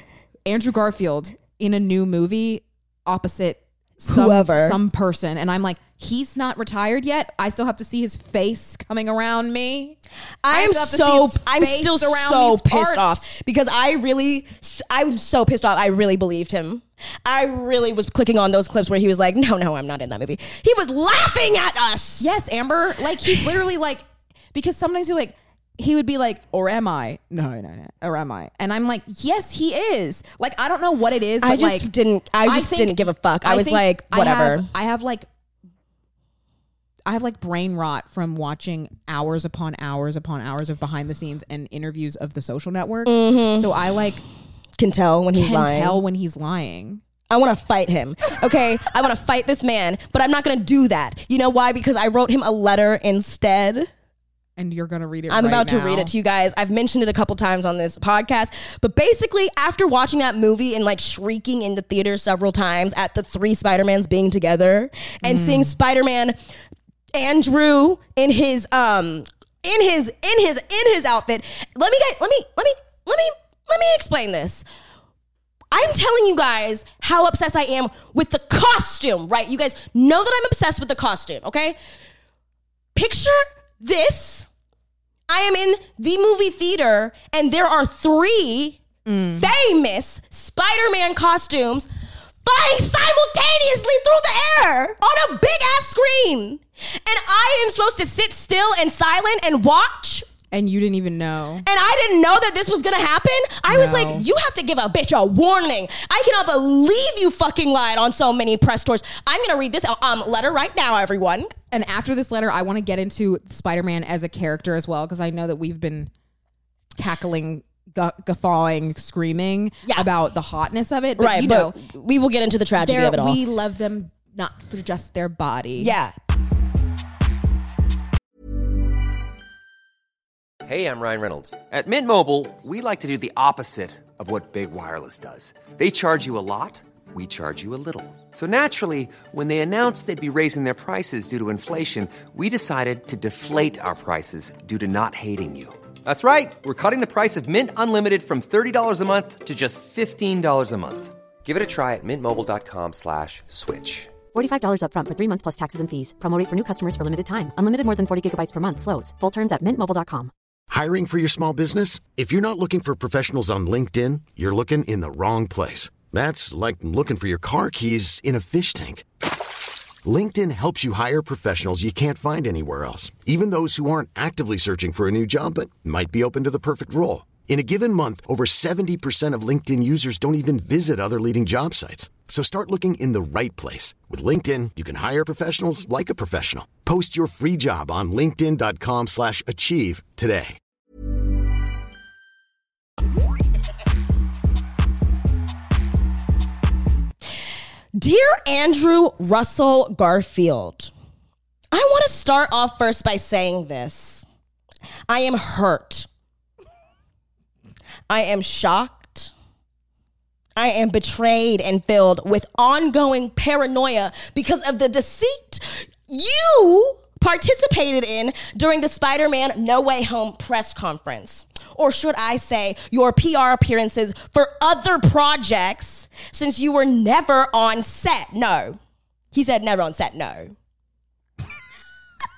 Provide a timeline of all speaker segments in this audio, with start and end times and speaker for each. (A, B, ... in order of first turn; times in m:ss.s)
0:00.4-0:10.0 A
0:04.0-0:04.8 B
0:10.4-0:22.3 B
0:10.5-0:13.3 A
0:22.2-0:31.9 A
0:31.4-0:34.7 B
0:32.4-0:35.3 A
0:37.0-0:44.2 A
0:43.0-0:43.7 B
0:44.8-0:46.0 B
0:45.3-0:47.0 A
0:47.3-0:53.9 B
0:54.6-0:56.1 A
0:55.3-1:06.4 B
1:05.2-1:05.8 A
1:07.1-1:14.6 B
1:15.7-1:21.8 B
1:22.9-1:24.4 B
1:25.3-1:28.8 B
1:29.0-1:29.5 A
1:29.3-1:31.9 B
1:32.4-1:40.3 B
1:40.5-1:41.6 A
1:41.6-1:51.5 B
1:43.7-1:44.2 A
1:51.7-1:56.1 A
1:57.0-2:01.8 A
2:01.2-2:03.4 B
2:02.8-2:06.0 A
2:05.8-2:06.1 B
2:10.6-2:34.2 C
2:34.3-2:40.3 D
2:40.7-2:49.0 E
2:50.0-3:10.6 E
3:18.0-3:20.9 B
3:21.7-3:24.2 B
3:25.1-3:26.1 B
3:28.1-3:29.3 B
3:30.6-3:48.8 B
3:49.3-3:50.5 B